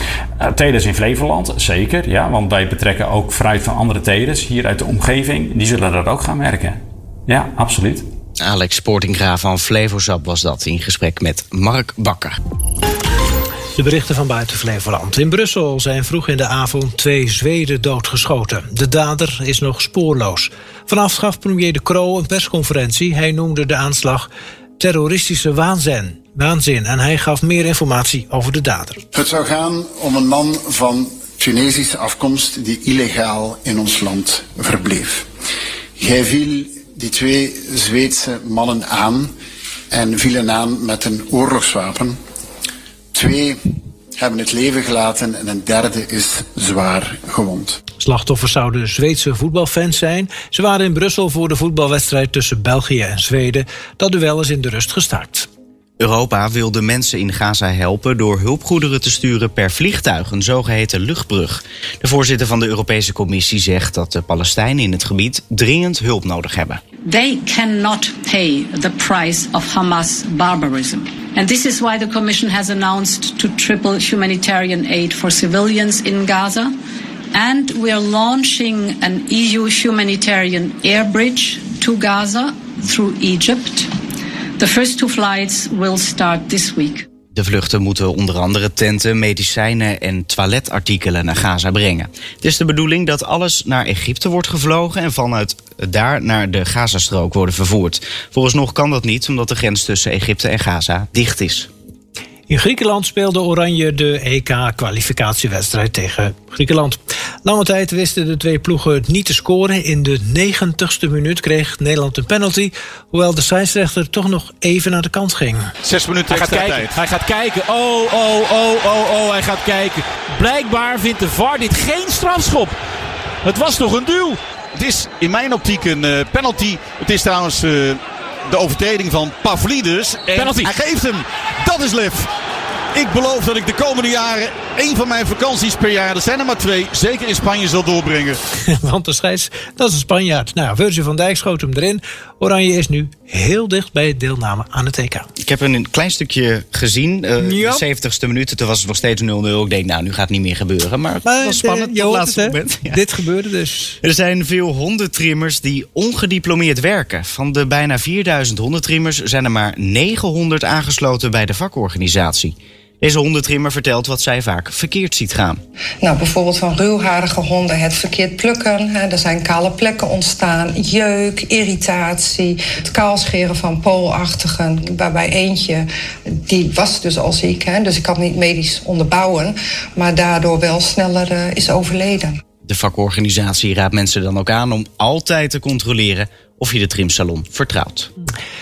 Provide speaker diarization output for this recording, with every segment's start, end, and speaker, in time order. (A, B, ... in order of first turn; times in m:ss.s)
0:00.4-0:08.0 A
0:08.4-0:12.4 B
0:13.7-0:24.3 C
0:24.8-0:29.0 C
0:29.1-0:35.2 D
0:36.0-0:39.3 D
0:39.9-0:42.2 D
0:43.1-0:43.6 D
0:44.2-0:47.8 D
0:48.0-0:55.5 C
0:56.0-1:06.8 B
1:07.0-1:16.7 E
1:17.3-1:23.9 E
1:24.6-1:27.0 E
1:27.3-1:41.7 B
1:42.5-1:55.7 C
1:55.8-1:57.3 F
1:56.3-2:02.7 G
1:58.1-2:02.7 F
2:03.4-2:08.0 F
2:08.5-2:12.3 F
2:10.3-2:10.7 G
2:12.9-2:18.4 F
2:18.7-2:25.2 C
2:25.4-2:33.0 B
2:27.4-2:27.8 C
2:31.2-2:34.0 C
2:34.0-2:45.6 B
2:46.0-2:55.8 H
2:56.4-3:02.4 H
3:02.6-3:08.1 B